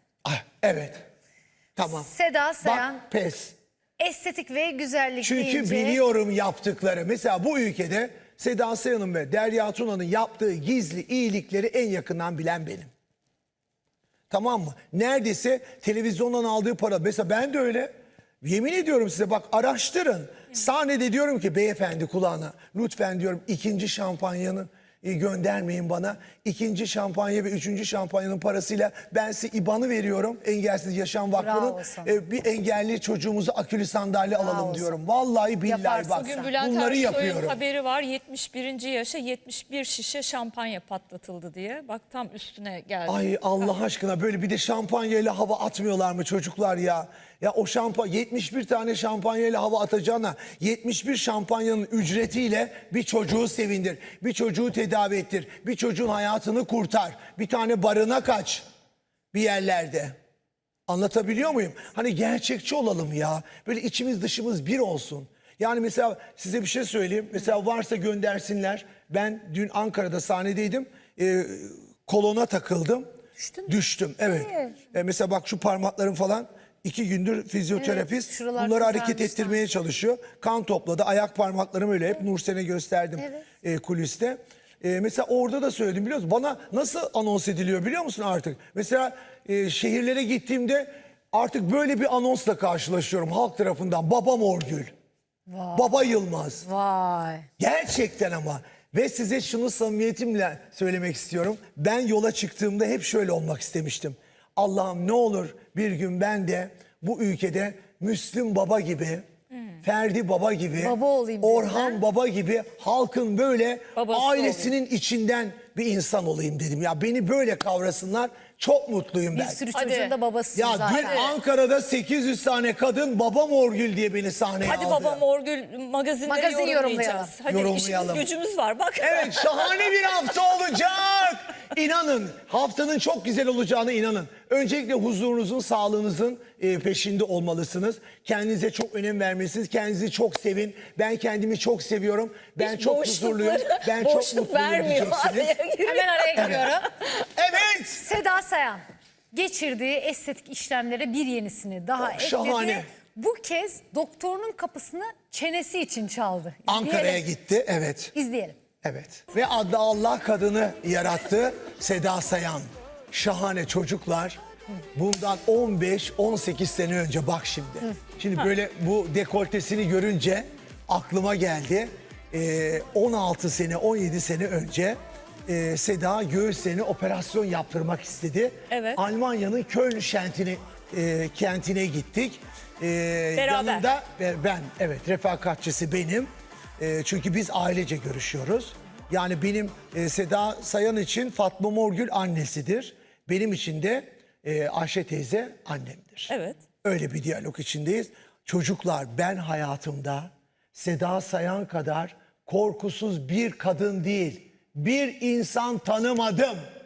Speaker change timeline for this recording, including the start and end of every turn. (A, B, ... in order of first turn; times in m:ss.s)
0:00.2-0:01.0 A
0:01.8-0:02.1 A
0:01.8-0:03.0 B
0:02.6-0:03.5 A
0:04.0-0:06.0 B
0:05.2-0:12.9 A
0:14.3-0:37.6 A
0:31.3-0:32.2 B
0:34.3-0:35.0 B
0:35.6-0:36.5 B
0:36.2-0:43.7 C
0:43.1-0:58.6 A
0:59.3-1:00.2 A
1:00.9-1:13.1 A
1:13.4-1:13.7 B
1:13.7-1:34.9 A
1:14.2-1:14.8 B
1:17.7-1:19.6 B
1:23.2-1:23.4 B
1:35.5-1:37.4 B
1:35.7-1:36.6 A
1:37.6-1:49.2 A
1:49.8-1:59.6 A
1:50.8-1:52.0 B
1:54.0-1:54.7 C
1:59.3-2:01.3 B
1:59.7-2:00.1 C
2:00.5-2:05.2 A
2:00.9-2:01.3 C
2:04.6-2:09.8 C
2:06.2-2:07.3 B
2:07.5-2:08.3 A
2:09.0-2:25.6 A
2:22.6-2:26.8 C
2:25.8-2:26.9 B
2:26.4-2:26.7 A
2:27.4-2:28.1 A
2:27.9-2:37.2 B
2:32.0-2:32.9 A
2:36.7-2:38.1 A
2:38.1-2:38.6 B
2:38.8-2:44.4 A
2:44.9-3:26.6 A
2:58.7-2:59.0 C
3:03.4-3:03.8 C
3:16.3-3:16.6 C